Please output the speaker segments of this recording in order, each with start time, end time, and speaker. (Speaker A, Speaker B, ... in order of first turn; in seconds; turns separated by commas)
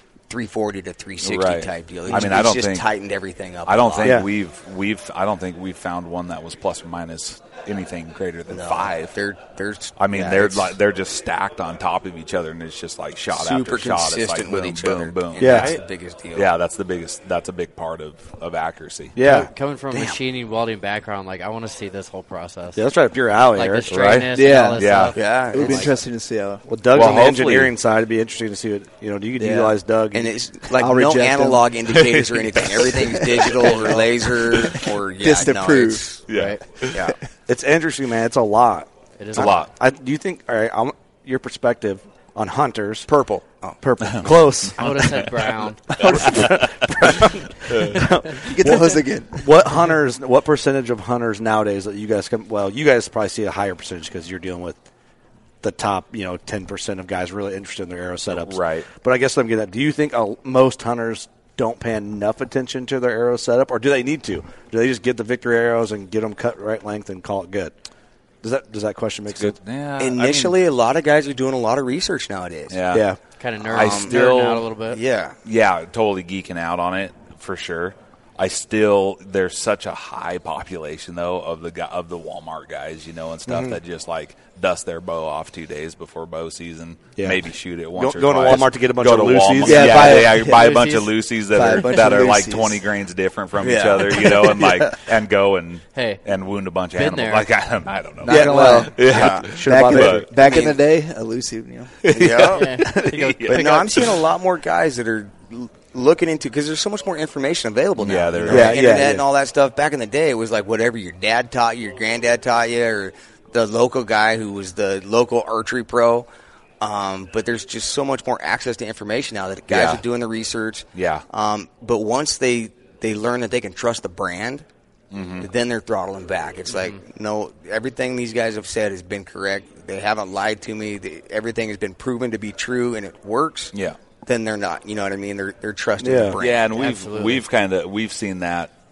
Speaker A: 0.3-4.2, Speaker B: 1.2-2.9, Speaker C: 2.1-2.4, Speaker B: 3.6-9.2, Speaker C: 4.0-4.3, Speaker A: 8.5-10.7, Speaker B: 10.0-15.8, Speaker A: 13.3-16.5, Speaker C: 15.4-15.7, Speaker D: 15.4-15.8, Speaker B: 16.3-19.2, Speaker C: 19.1-19.5, Speaker D: 19.2-22.8, Speaker A: 19.9-20.2, Speaker C: 22.7-23.9, Speaker D: 23.5-25.9, Speaker B: 23.9-25.1, Speaker E: 24.3-26.6, Speaker A: 25.1-25.9, Speaker C: 25.6-25.9, Speaker C: 26.6-30.3, Speaker B: 26.9-27.7, Speaker E: 29.4-29.8, Speaker A: 30.1-36.3, Speaker E: 30.8-32.1, Speaker E: 33.2-33.5, Speaker D: 33.7-34.0, Speaker E: 34.7-36.0, Speaker B: 36.3-37.1, Speaker D: 36.3-36.6, Speaker A: 36.9-37.2, Speaker C: 37.5-43.1, Speaker D: 39.2-39.7, Speaker B: 39.4-39.7, Speaker A: 43.1-43.8, Speaker C: 43.8-45.2, Speaker B: 44.1-47.1, Speaker D: 44.8-46.3, Speaker C: 46.0-54.8, Speaker B: 47.7-48.0, Speaker E: 48.5-49.8, Speaker C: 55.6-67.7, Speaker B: 58.3-58.9, Speaker C: 68.4-69.6, Speaker B: 69.3-70.6, Speaker A: 70.0-72.8, Speaker B: 72.7-73.1, Speaker C: 72.9-73.2, Speaker D: 73.4-75.0, Speaker B: 73.7-74.7, Speaker A: 73.7-74.2, Speaker A: 74.9-75.4, Speaker B: 75.4-100.3, Speaker C: 83.5-83.8, Speaker C: 87.2-90.2, Speaker E: 89.7-90.8, Speaker D: 90.2-91.2, Speaker E: 91.5-92.8, Speaker A: 93.6-94.4, Speaker E: 94.2-94.9, Speaker D: 96.0-96.2, Speaker D: 96.9-97.5, Speaker E: 98.2-98.9, Speaker C: 98.2-100.5, Speaker A: 98.3-99.7, Speaker E: 99.6-102.0, Speaker A: 100.4-100.8, Speaker B: 102.0-104.1, Speaker A: 102.1-102.8, Speaker D: 102.5-103.8, Speaker A: 103.5-116.3, Speaker B: 108.0-109.0, Speaker C: 108.4-109.2, Speaker E: 108.5-109.0, Speaker A: 116.8-124.6, Speaker B: 119.7-120.0, Speaker B: 120.9-121.2, Speaker B: 125.1-125.5, Speaker A: 125.4-133.7, Speaker D: 126.7-127.0, Speaker A: 134.2-136.6, Speaker C: 136.0-136.4, Speaker B: 136.4-138.7, Speaker D: 136.7-137.4